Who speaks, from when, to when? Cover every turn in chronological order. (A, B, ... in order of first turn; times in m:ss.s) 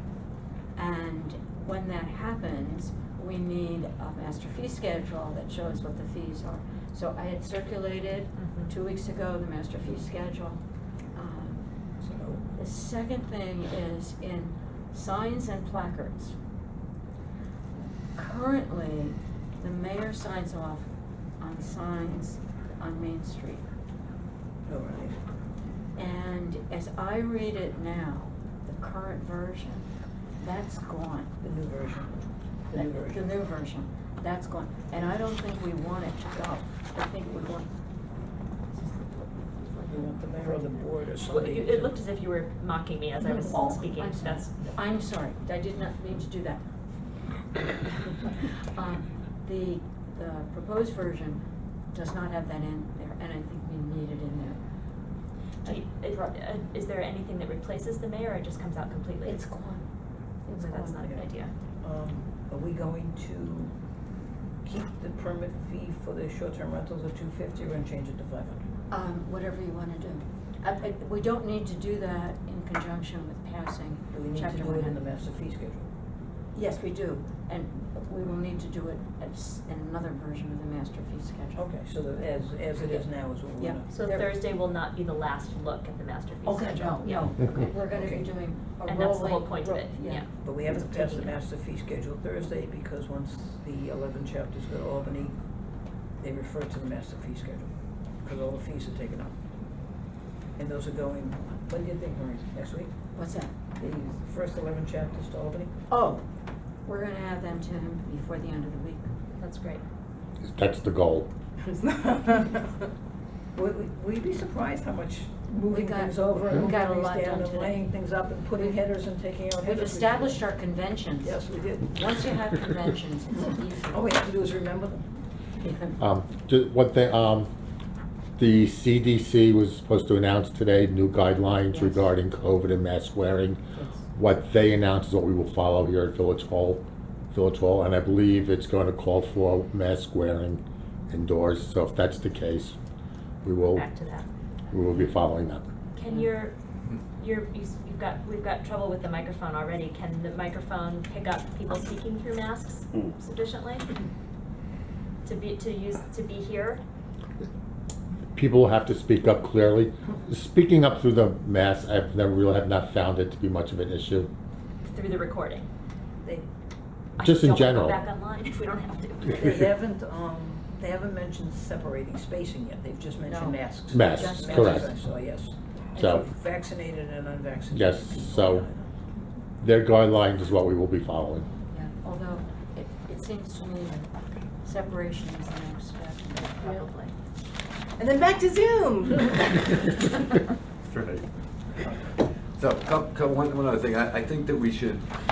0:00.8-0:10.6 A
0:08.4-0:08.7 B
0:11.1-0:11.7 A
0:12.0-0:12.4 C
0:12.5-0:16.4 A
0:18.1-0:20.9 A
0:21.4-0:23.6 A
0:24.6-0:25.2 C
0:26.0-0:31.4 A
0:31.4-0:33.3 C
0:32.7-0:37.7 A
0:38.7-0:40.9 A
0:39.9-0:42.0 C
0:41.2-0:44.5 B
0:43.2-0:46.7 A
0:48.2-0:54.6 A
0:55.6-0:56.4 A
0:55.6-0:59.4 B
0:59.2-0:59.9 A
1:00.5-1:01.1 A
1:00.5-1:01.5 B
1:01.8-1:03.7 C
1:04.6-1:08.7 C
1:08.9-1:15.0 A
1:14.1-1:15.9 C
1:16.6-1:21.6 A
1:21.6-1:23.9 C
1:23.6-1:24.3 A
1:23.9-1:27.2 B
1:26.4-1:31.2 A
1:27.9-1:28.3 C
1:28.9-1:30.3 B
1:30.4-1:35.3 C
1:36.2-1:37.7 C
1:38.2-1:39.3 C
1:40.6-1:42.9 C
1:43.1-1:43.5 A
1:43.8-1:45.7 C
1:45.9-1:46.2 A
1:46.9-1:49.1 A
1:49.4-1:49.8 B
1:50.4-1:51.3 D
1:51.6-1:52.9 E
1:53.6-2:00.5 C
1:55.7-1:57.9 A
1:59.6-2:04.1 A
2:01.2-2:02.0 C
2:03.9-2:05.1 C
2:05.6-2:06.0 A
2:06.0-2:07.5 D
2:08.4-2:13.6 D
2:11.7-2:12.1 A
2:14.1-2:22.8 D
2:23.4-2:23.8 D
2:23.7-2:24.3 B
2:24.7-2:25.7 D
2:26.0-2:26.5 B
2:27.2-2:33.9 B
2:35.2-2:36.8 B
2:38.3-2:44.3 D
2:44.8-2:45.7 B
2:47.2-2:49.5 B
2:47.2-2:48.0 D
2:49.3-2:58.9 C
2:53.3-2:54.9 A
2:53.9-2:54.9 D
2:56.0-2:56.2 D
2:57.7-2:58.7 D
2:59.6-3:01.5 D
3:01.7-3:04.1 A
3:04.6-3:07.1 A
3:06.6-3:06.9 E
3:08.0-3:09.7 E
3:10.9-3:11.2 F
3:12.6-3:15.0 F